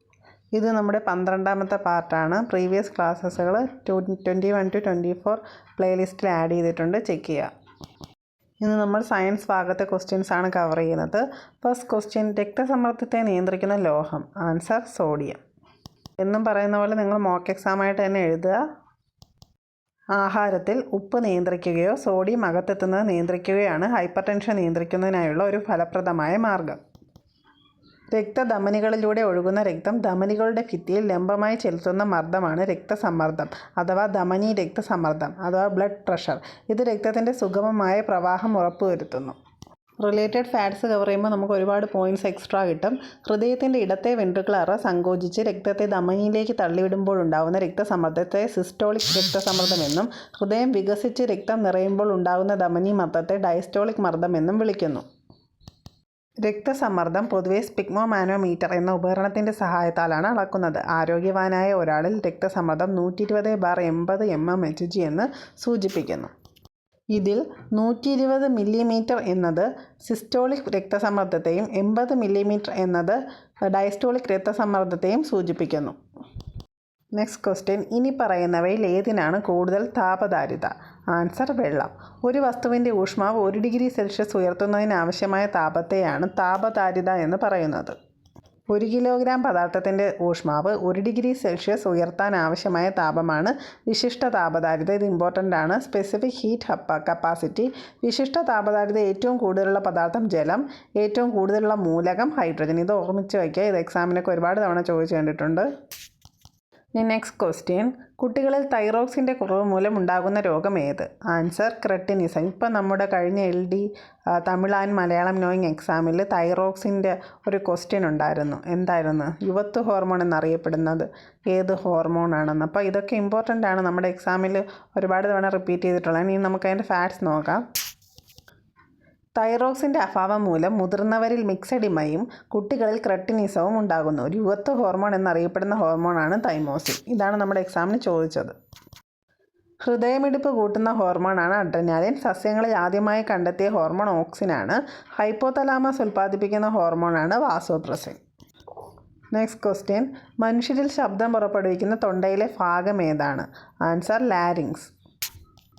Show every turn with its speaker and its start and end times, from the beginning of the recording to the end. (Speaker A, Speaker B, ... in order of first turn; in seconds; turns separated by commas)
Speaker A: 0.6-7.5, Speaker A: 8.6-15.4, Speaker A: 16.2-18.6, Speaker A: 20.2-26.8, Speaker A: 28.1-39.3, Speaker A: 40.0-55.0, Speaker A: 56.4-66.3, Speaker A: 67.1-76.0, Speaker A: 77.2-88.0, Speaker A: 88.7-105.7, Speaker A: 107.0-127.6, Speaker A: 129.3-138.5, Speaker A: 139.8-148.2, Speaker A: 149.3-154.9